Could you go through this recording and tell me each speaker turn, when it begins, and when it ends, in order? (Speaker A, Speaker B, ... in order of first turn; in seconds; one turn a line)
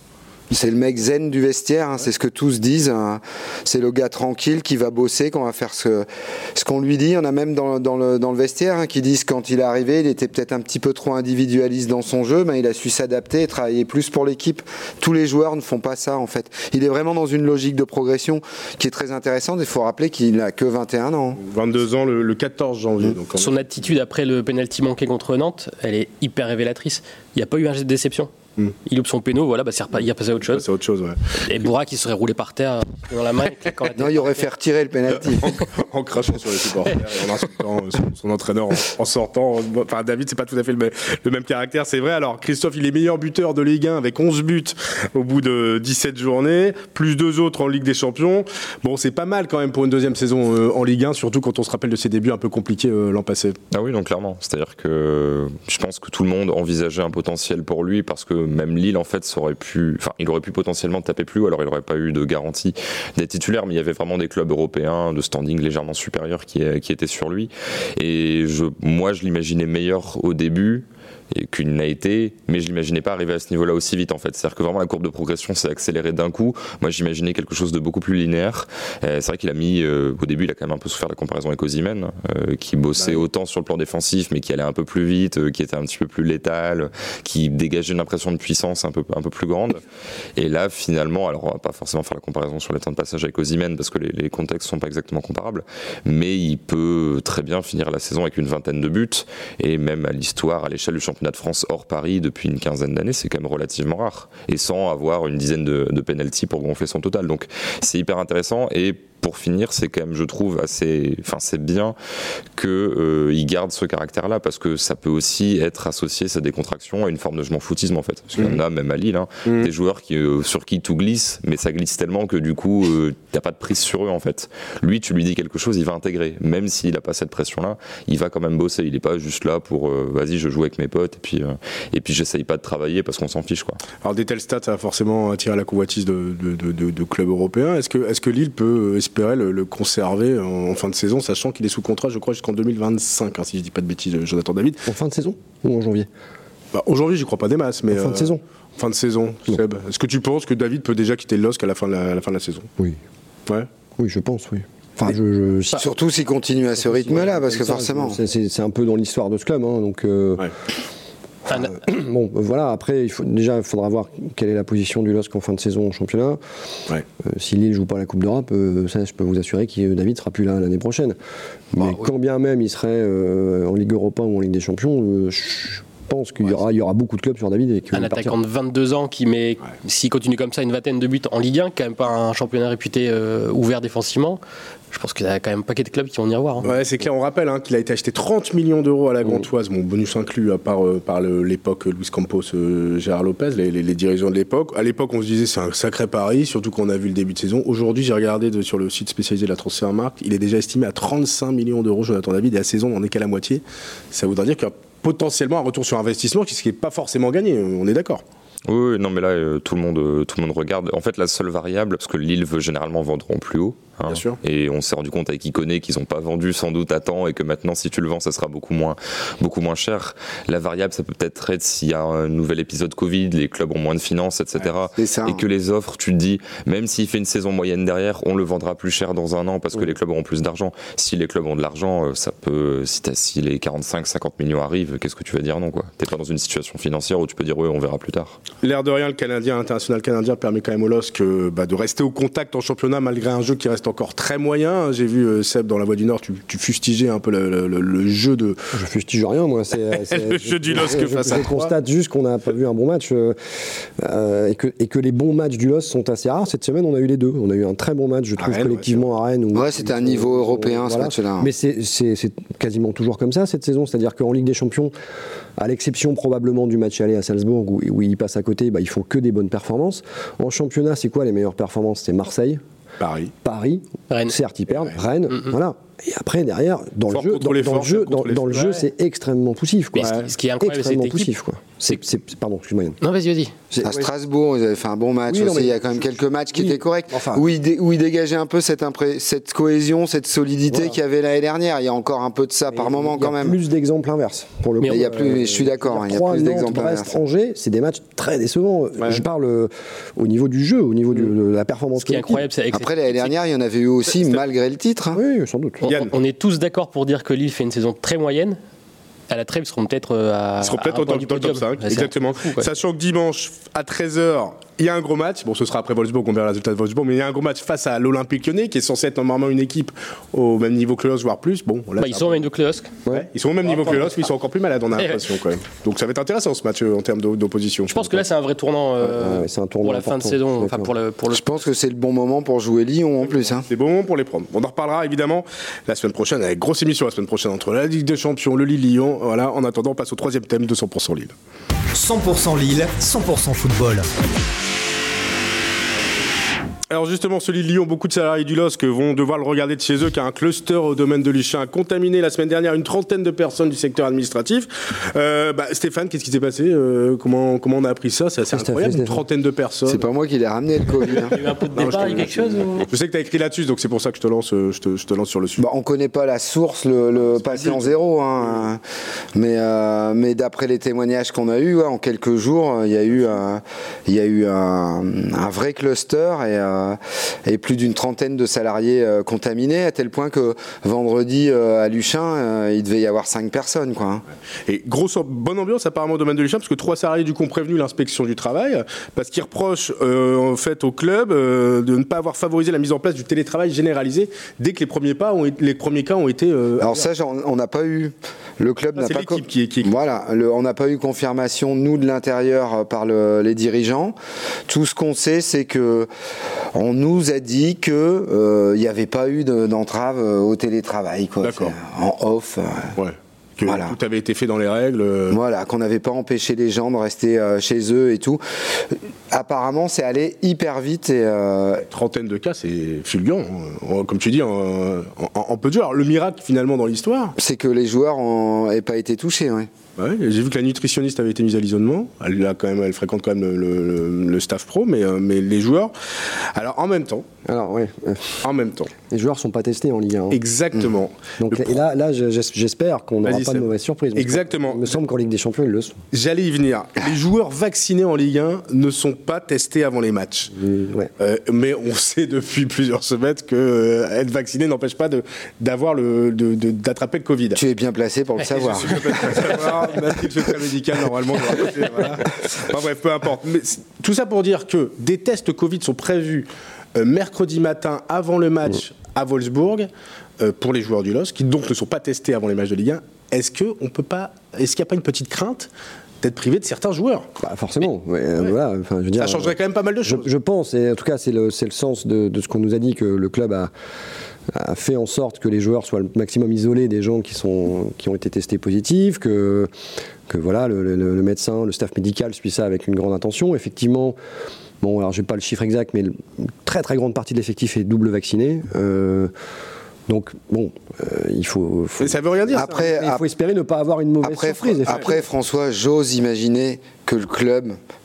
Speaker A: 0.5-21.4
Speaker B: 21.4-23.6
Speaker C: 23.3-28.3
Speaker C: 28.9-30.6
Speaker B: 30.5-31.4
Speaker C: 31.4-34.5
Speaker A: 34.0-35.5
Speaker B: 35.4-53.6
Speaker D: 53.7-89.8
Speaker B: 83.0-83.2
Speaker D: 90.3-112.0
Speaker D: 112.5-133.8
Speaker B: 119.4-119.7
Speaker B: 134.0-144.8
Speaker E: 144.9-146.1
Speaker B: 146.7-152.7
Speaker E: 147.9-148.4
Speaker E: 154.0-155.9
Speaker A: 155.8-158.2
Speaker E: 156.9-160.5
Speaker E: 161.5-166.4
Speaker E: 167.2-171.2
Speaker E: 171.7-178.3
Speaker C: 177.9-184.4
Speaker C: 184.9-186.7
Speaker B: 186.6-208.2
Speaker D: 208.7-238.4
Speaker B: 214.1-214.4
Speaker A: 225.0-225.4
Speaker B: 238.6-248.6
Speaker E: 248.7-253.3
Speaker B: 249.9-251.7
Speaker E: 254.0-264.9
Speaker B: 258.4-259.0
Speaker A: 259.5-261.5
Speaker E: 265.6-272.6
Speaker B: 273.0-273.3
Speaker E: 273.4-283.0
Speaker C: 274.1-274.3
Speaker B: 277.1-278.5
Speaker C: 278.5-278.8
Speaker C: 279.9-281.3
Speaker B: 280.0-280.3
Speaker C: 283.0-283.5
Speaker E: 283.7-284.1
Speaker A: 283.8-293.6
Speaker E: 285.3-287.4
Speaker E: 290.7-291.0
Speaker E: 292.7-302.4
Speaker A: 294.8-297.1
Speaker C: 302.0-303.3
Speaker A: 302.7-305.2
Speaker E: 305.1-305.8
Speaker C: 305.8-308.6
Speaker B: 305.8-306.1
Speaker C: 309.3-312.7
Speaker B: 310.6-322.5
Speaker C: 322.0-322.9
Speaker B: 323.1-328.2
Speaker C: 323.6-324.2
Speaker C: 324.9-325.2
Speaker C: 327.9-331.7
Speaker E: 329.0-330.9
Speaker A: 331.3-333.6
Speaker B: 333.3-341.3
Speaker F: 341.9-344.1
Speaker B: 346.9-360.1
Speaker E: 358.5-359.2
Speaker A: 359.9-361.4
Speaker C: 361.1-362.9
Speaker B: 361.8-365.6
Speaker A: 365.6-368.8
Speaker B: 367.2-368.6
Speaker A: 369.3-384.2
Speaker B: 384.7-397.1
Speaker A: 396.8-404.1
Speaker B: 398.9-399.9
Speaker A: 404.7-406.1
Speaker A: 406.7-412.9
Speaker B: 411.4-411.8
Speaker B: 413.0-415.4
Speaker A: 413.6-413.9
Speaker A: 415.3-418.4
Speaker A: 419.3-421.9
Speaker B: 421.9-427.4
Speaker A: 427.4-429.7
Speaker B: 430.0-437.3
Speaker E: 437.4-438.4
Speaker B: 438.4-438.9
Speaker E: 439.0-440.4
Speaker B: 440.3-441.8
Speaker E: 441.4-446.0
Speaker B: 443.2-445.0
Speaker B: 446.1-450.5
Speaker E: 450.5-451.1
Speaker B: 451.2-457.6
Speaker A: 457.5-459.5
Speaker B: 458.4-475.7
Speaker C: 459.1-459.5
Speaker B: 476.2-477.3
Speaker E: 477.4-483.7
Speaker B: 479.2-480.3
Speaker E: 484.5-489.7
Speaker E: 490.3-494.1
Speaker E: 494.8-499.3
Speaker E: 500.1-505.3
Speaker B: 502.0-502.8
Speaker A: 502.5-503.2
Speaker A: 504.2-507.8